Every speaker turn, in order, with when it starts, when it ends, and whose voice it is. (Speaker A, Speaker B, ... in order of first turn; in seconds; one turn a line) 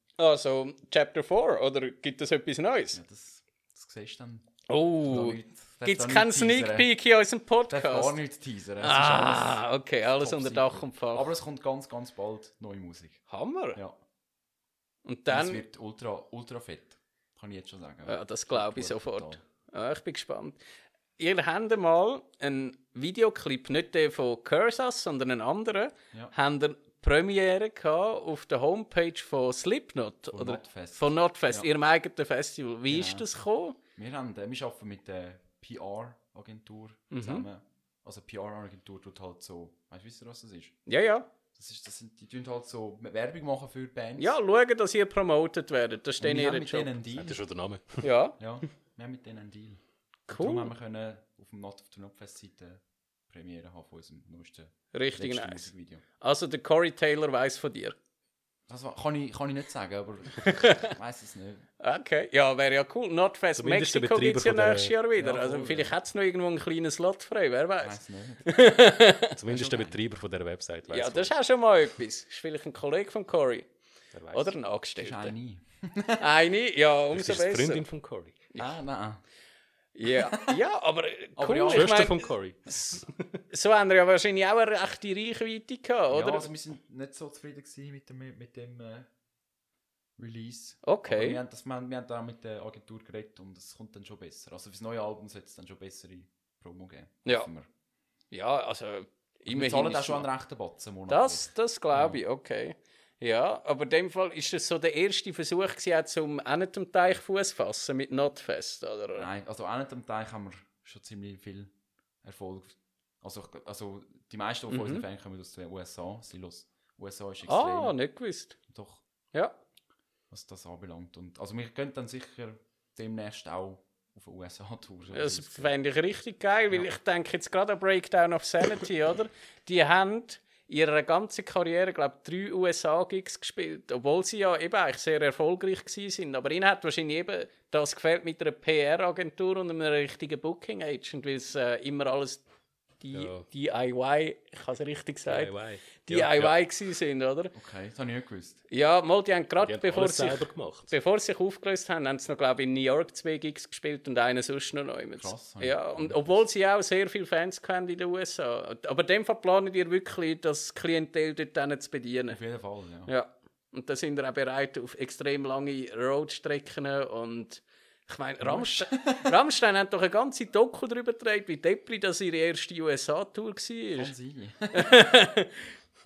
Speaker A: 0.2-3.0
Speaker B: 2.9-4.5
Speaker A: 4.7-8.2
Speaker B: 5.0-6.9
Speaker B: 7.7-13.2
Speaker A: 8.8-11.3
Speaker A: 13.3-13.8
Speaker A: 15.0-15.6
Speaker B: 15.3-19.4
Speaker A: 18.1-20.6
Speaker A: 21.2-33.8
Speaker B: 30.3-31.7
Speaker B: 32.9-33.2
Speaker B: 34.0-40.8
Speaker A: 37.1-37.5
Speaker A: 40.9-41.3
Speaker B: 41.5-44.3
Speaker A: 44.2-46.9
Speaker B: 46.2-47.4
Speaker C: 47.1-48.1
Speaker A: 48.0-48.4
Speaker B: 48.4-56.0
Speaker A: 50.3-50.7
Speaker A: 54.9-58.0
Speaker B: 58.7-61.7
Speaker A: 60.4-60.9
Speaker A: 61.8-69.3
Speaker C: 63.6-65.0
Speaker B: 65.2-65.9
Speaker B: 67.8-68.5
Speaker C: 69.4-71.3
Speaker B: 69.5-69.9
Speaker A: 70.9-73.7
Speaker C: 74.1-74.5
Speaker A: 74.3-75.3
Speaker B: 75.0-76.3
Speaker A: 76.2-77.8
Speaker C: 77.1-78.4
Speaker B: 78.5-79.2
Speaker A: 79.9-83.0
Speaker B: 80.1-80.5
Speaker B: 81.4-82.2
Speaker C: 81.7-83.3
Speaker A: 83.5-86.5
Speaker B: 86.1-89.1
Speaker B: 90.2-97.7
Speaker A: 90.8-91.4
Speaker A: 98.3-100.3
Speaker B: 99.5-102.2
Speaker A: 101.1-109.3
Speaker B: 109.2-111.7
Speaker B: 112.2-118.0
Speaker A: 114.7-115.0
Speaker A: 117.4-118.5
Speaker B: 118.7-119.0
Speaker B: 120.3-125.7
Speaker A: 125.1-142.4
Speaker A: 143.0-147.5
Speaker C: 143.1-143.4
Speaker C: 145.3-146.6
Speaker B: 147.5-148.6
Speaker A: 148.7-162.4
Speaker C: 149.6-150.9
Speaker B: 155.2-156.4
Speaker B: 162.3-163.1
Speaker A: 163.1-174.1
Speaker B: 168.4-169.3
Speaker B: 173.9-175.1
Speaker A: 174.7-175.7